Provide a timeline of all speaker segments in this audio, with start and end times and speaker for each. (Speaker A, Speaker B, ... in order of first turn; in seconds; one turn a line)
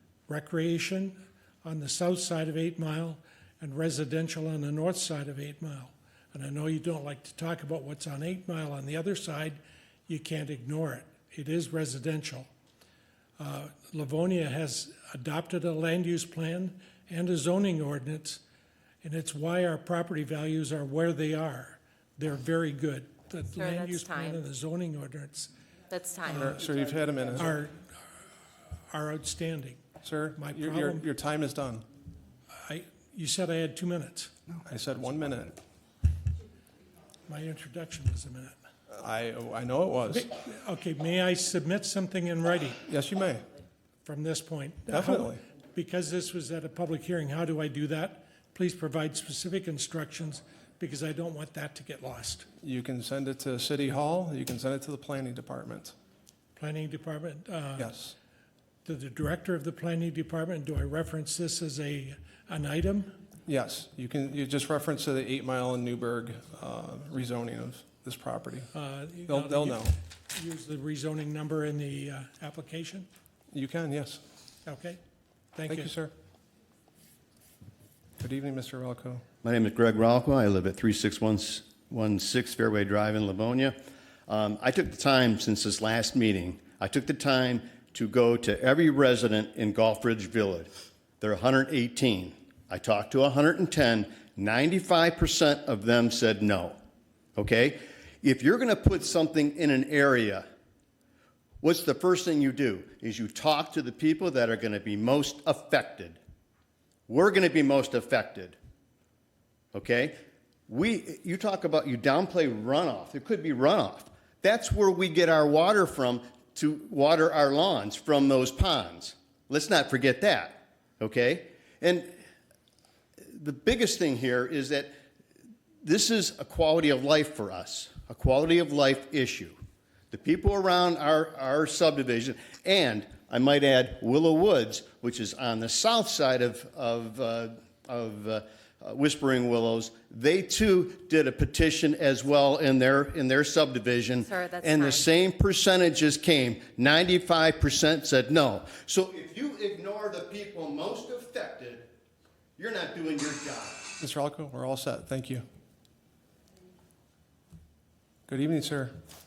Speaker A: 0.3-12.5
Speaker A: 13.4-18.4
Speaker A: 19.0-25.5
Speaker B: 23.6-24.4
Speaker B: 25.9-26.6
Speaker A: 26.3-26.6
Speaker C: 26.3-27.5
Speaker A: 27.4-27.8
Speaker A: 28.9-29.8
Speaker C: 30.0-31.8
Speaker A: 30.4-31.1
Speaker A: 32.6-34.3
Speaker C: 34.6-35.6
Speaker A: 37.3-38.5
Speaker C: 38.9-40.3
Speaker A: 40.1-42.8
Speaker C: 42.9-43.5
Speaker A: 44.0-52.5
Speaker C: 44.9-45.4
Speaker C: 52.6-55.9
Speaker A: 56.6-58.0
Speaker C: 57.8-58.1
Speaker A: 58.9-63.2
Speaker C: 63.5-68.7
Speaker A: 68.7-73.1
Speaker C: 69.3-70.0
Speaker C: 73.5-74.2
Speaker A: 74.7-75.0
Speaker A: 75.5-75.9
Speaker C: 75.7-76.1
Speaker C: 78.2-79.2
Speaker D: 79.4-83.8
Speaker D: 84.3-90.7
Speaker D: 91.2-96.8
Speaker D: 97.4-100.5
Speaker D: 101.6-106.2
Speaker D: 107.1-108.6
Speaker D: 109.7-110.1
Speaker D: 110.7-122.1
Speaker D: 123.3-124.9
Speaker D: 125.8-129.6
Speaker D: 130.1-151.9
Speaker B: 144.2-145.1
Speaker D: 152.6-153.9
Speaker C: 154.0-155.4
Speaker C: 158.3-158.9